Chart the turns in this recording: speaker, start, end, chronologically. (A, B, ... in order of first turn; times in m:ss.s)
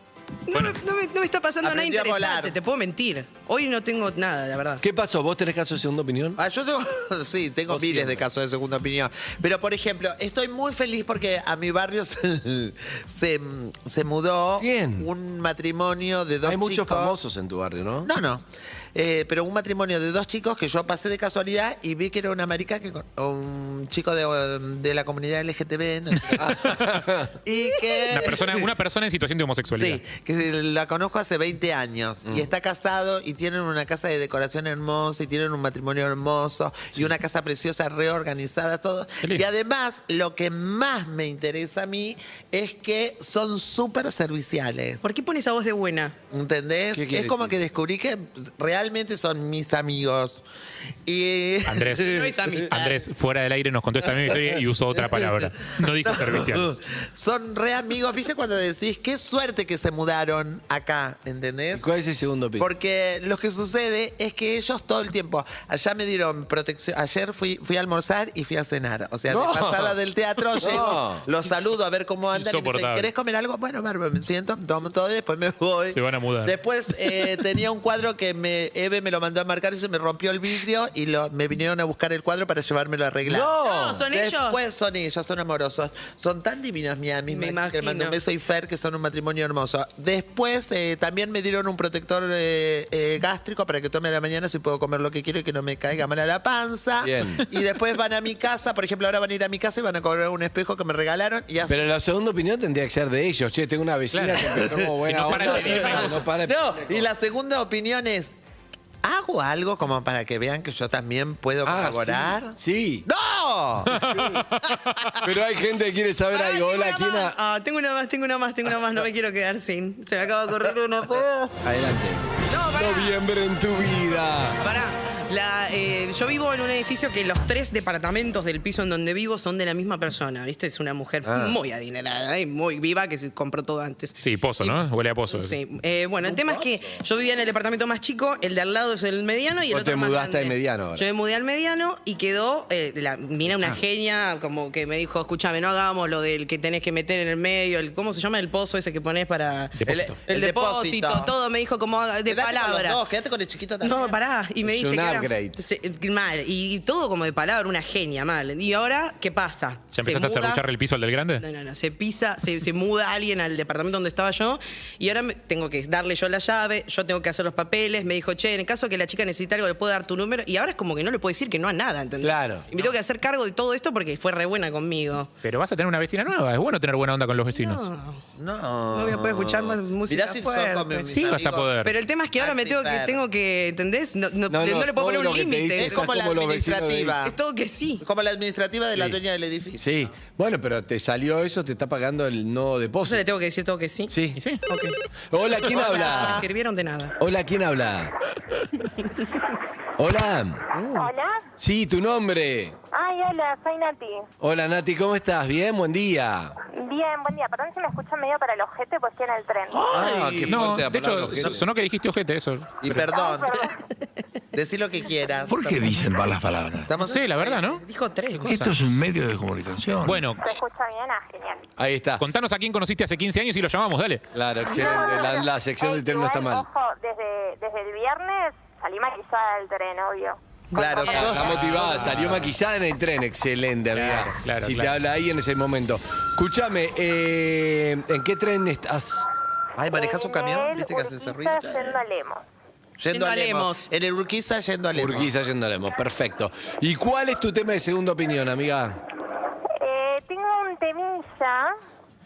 0:00.5-0:04.8 A
0:00.5-0:00.8 B
0:01.6-0:02.6 C
0:04.8-0:06.4 D
0:06.4-0:17.2 C
0:07.7-0:08.3 D
0:14.6-0:15.1 D
0:16.4-0:18.1 D
0:18.0-0:26.7 C
0:26.4-0:27.4 D
0:27.4-0:28.7 C
0:28.1-0:30.0 B
0:29.7-0:45.0 C
0:32.2-0:32.5 D
0:45.0-0:46.2 A
0:46.3-0:50.4 C
0:46.9-0:47.6 D
0:51.1-0:52.7 C
0:51.7-0:52.1 B
0:52.0-0:53.0 A
0:52.7-0:56.8 B
0:55.2-1:01.9 C
1:01.7-1:02.7 D
1:02.6-1:23.6 C
1:09.3-1:10.0 D
1:10.5-1:11.3 D
1:12.3-1:13.1 B
1:15.9-1:16.6 B
1:23.2-1:24.1 D
1:23.6-1:24.6 A
1:24.1-1:41.8 C
1:27.3-1:28.2 A
1:37.0-1:37.5 D
1:41.7-1:47.0 D
1:44.1-1:46.2 B
1:45.3-1:48.3 C
1:49.0-1:52.6 C
1:51.6-1:53.1 D
1:53.1-1:54.1 C
1:53.9-1:55.1 B
1:54.0-1:54.3 D
1:55.2-1:57.4 D
1:56.3-2:01.3 A
2:00.7-2:01.5 C
2:01.6-2:04.6 D
2:02.5-2:03.2 A
2:04.6-2:33.0 A
2:11.2-2:11.6 D
2:14.2-2:15.6 B
2:16.3-2:17.0 C
2:19.7-2:21.1 D
2:29.8-2:30.2 B
2:29.9-2:31.3 C
2:32.3-2:34.2 C
2:33.8-2:40.6 A
2:34.6-2:35.7 D
2:39.9-2:41.4 B
2:41.4-2:55.3 A
2:52.2-2:52.7 D
2:55.4-2:57.9 B
2:57.5-2:58.2 A
2:58.4-3:01.8 C
2:58.9-3:06.1 A
3:01.3-3:01.9 B
3:02.4-3:03.2 C
3:04.5-3:07.2 D
3:05.8-3:07.4 C
3:07.2-3:08.0 A
3:08.0-3:09.9 C
3:08.9-3:09.2 D
3:09.8-3:13.2 D
3:13.0-3:14.1 A
3:14.1-3:14.4 D
3:14.4-3:14.6 B
3:14.7-3:15.0 A
3:15.3-3:16.4 D
3:15.6-3:16.5 C
3:15.9-3:17.2 A
3:17.2-3:18.2 D
3:20.0-3:20.6 D
3:20.7-3:21.1 A
3:20.9-3:21.4 E
3:21.6-3:22.8 D
3:22.9-3:24.3 E
3:24.4-3:26.6 D
3:26.7-3:29.8 E
3:29.7-3:31.7 D
3:29.9-3:30.8 C
3:30.5-3:33.0 B
3:32.8-3:33.7 C
3:33.1-3:33.7 E
3:34.5-3:36.0 C
3:35.5-3:36.9 F
3:36.9-3:37.6 C
3:37.0-3:38.8 B
3:37.7-3:38.6 A
3:38.5-3:40.2 F
3:40.0-3:40.5 B
3:40.4-3:41.6 E
3:41.8-3:42.2 D
3:42.2-3:44.2 B
3:44.3-3:46.7 D
3:44.6-3:51.5 E
3:50.7-3:51.4 A
3:50.7-3:52.4 C
3:51.0-3:59.3 D
3:51.5-3:52.2 B
3:53.9-3:55.0 B
3:59.8-4:02.0 C
3:59.9-4:02.4 E
4:03.0-4:05.3 C
4:03.1-4:03.9 A
4:04.9-4:09.0 D
4:09.8-4:11.8 E